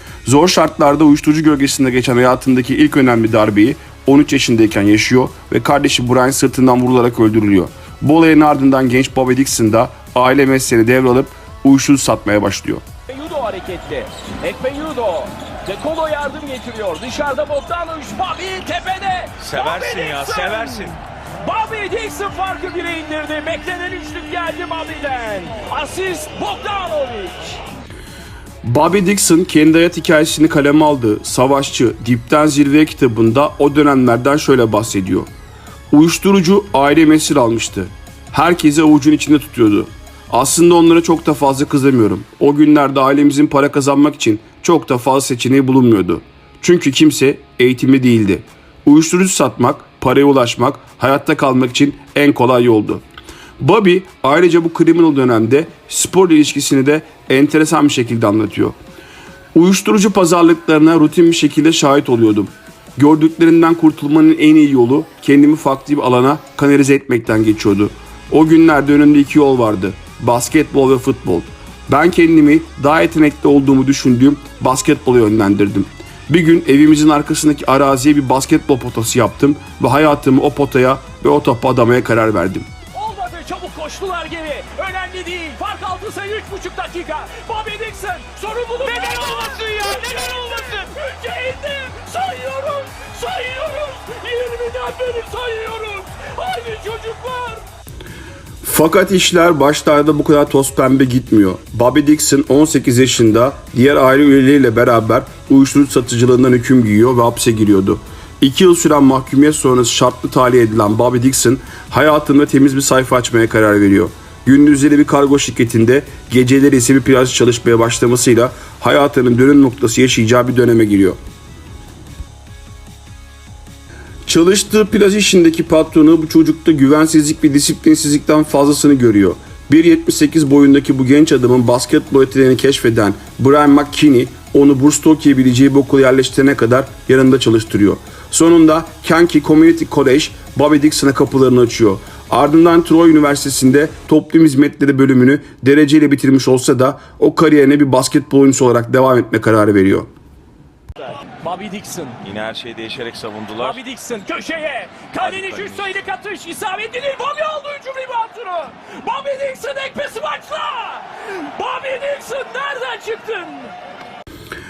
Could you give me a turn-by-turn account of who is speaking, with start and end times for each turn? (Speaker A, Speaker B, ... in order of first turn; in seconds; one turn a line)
Speaker A: 0.2-12.8
Speaker B: 13.1-27.6
Speaker C: 19.4-21.0
Speaker A: 28.6-35.3
Speaker A: 35.9-53.0
Speaker A: 53.6-58.8
Speaker A: 59.5-82.7
Speaker B: 82.9-97.6
Speaker A: 98.6-121.2
Speaker A: 124.2-150.1
Speaker B: 151.3-152.2
Speaker C: 152.2-153.8
Speaker B: 153.6-163.7
Speaker C: 155.2-155.9